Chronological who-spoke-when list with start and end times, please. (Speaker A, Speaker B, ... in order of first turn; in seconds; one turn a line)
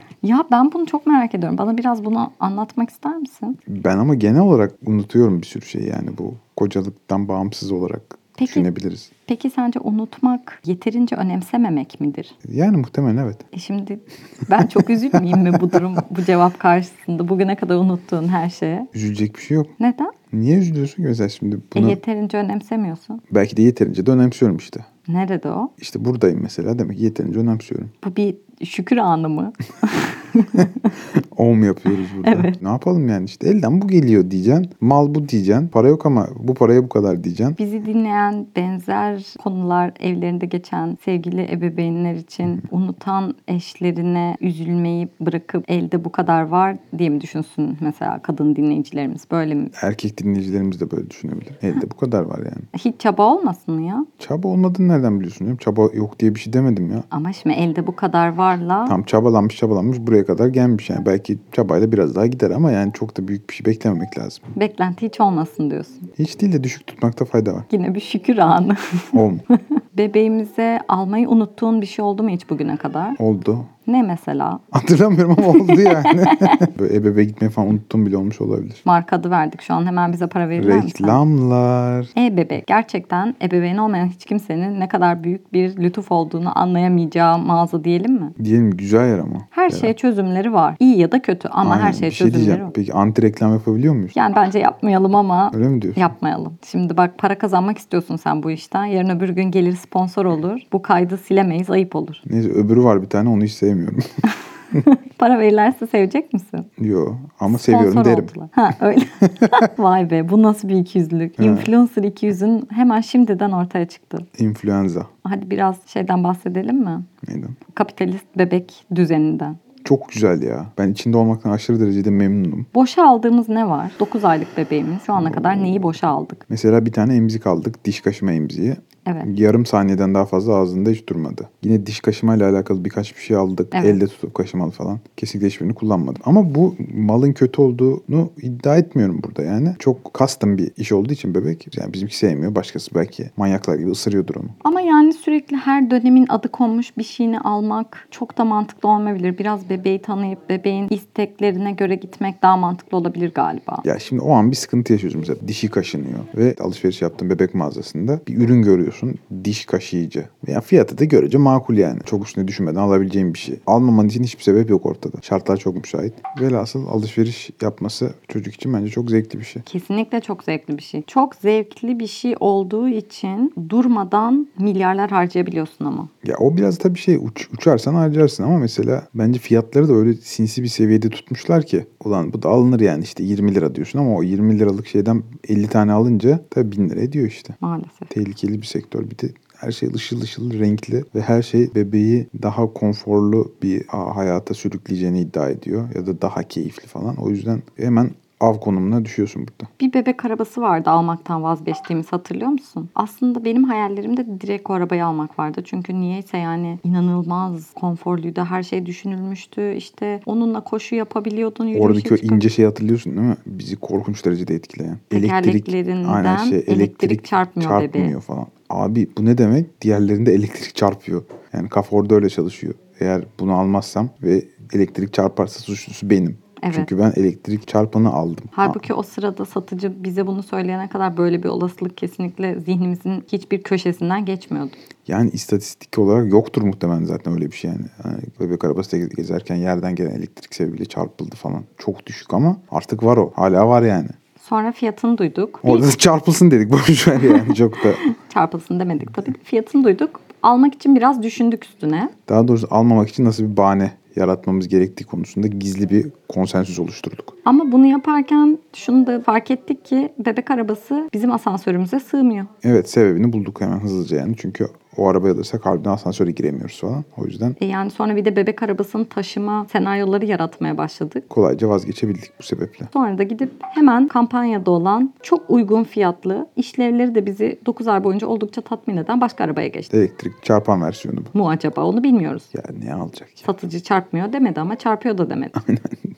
Speaker A: 0.2-3.6
Speaker B: 3.7-9.1
Speaker A: 8.4-8.7
Speaker A: 9.3-12.3
Speaker B: 12.4-13.4
Speaker A: 13.5-18.9
Speaker B: 15.5-15.8
Speaker B: 18.9-19.7
Speaker A: 19.8-20.1
Speaker B: 20.3-22.0
Speaker A: 21.7-23.2
Speaker B: 23.3-24.9
Speaker A: 25.1-25.7
Speaker B: 25.8-27.9
Speaker A: 28.0-30.9
Speaker B: 31.1-37.6
Speaker A: 32.0-32.5
Speaker A: 37.6-49.7
Speaker B: 49.7-52.7
Speaker A: 52.7-54.1
Speaker B: 54.2-57.1
Speaker A: 57.1-59.0
Speaker B: 58.9-64.5
Speaker A: 64.5-66.1
Speaker B: 66.2-67.7
Speaker A: 67.7-73.2
Speaker B: 69.1-69.4
Speaker B: 73.2-73.7
Speaker A: 73.9-74.6
Speaker B: 74.7-78.8
Speaker A: 75.4-76.7
Speaker A: 78.8-81.2
Speaker B: 80.5-82.1
Speaker A: 82.1-88.3
Speaker B: 88.4-89.9
Speaker A: 89.5-92.7
Speaker B: 91.6-94.2
Speaker A: 94.1-102.2
Speaker B: 95.5-96.1
Speaker B: 102.2-104.0
Speaker A: 104.8-106.7
Speaker B: 106.8-108.3
Speaker A: 107.5-114.3
Speaker B: 111.4-111.7
Speaker B: 114.3-115.1
Speaker A: 115.2-117.0
Speaker B: 117.2-117.6
Speaker A: 117.7-119.6
Speaker B: 119.8-122.7
Speaker A: 122.7-126.4
Speaker B: 125.1-125.9
Speaker B: 126.5-144.6
Speaker A: 133.7-134.0
Speaker A: 144.6-153.8
Speaker B: 153.8-169.6
Speaker A: 169.7-176.1
Speaker B: 176.2-187.6
Speaker A: 187.6-188.1
Speaker B: 188.1-199.7
Speaker A: 199.8-212.5
Speaker B: 211.7-228.8
Speaker A: 215.1-218.1
Speaker A: 226.6-226.9
Speaker A: 228.5-234.8
Speaker B: 235.1-244.2
Speaker A: 244.4-245.9
Speaker B: 245.6-248.0
Speaker A: 247.2-252.1
Speaker B: 252.3-257.3
Speaker A: 257.4-262.5
Speaker B: 262.6-267.6
Speaker A: 267.6-271.2
Speaker B: 271.3-272.9
Speaker A: 272.9-279.9
Speaker B: 279.9-281.3
Speaker A: 281.3-282.5
Speaker B: 282.5-283.5
Speaker A: 283.4-285.6
Speaker B: 285.6-285.9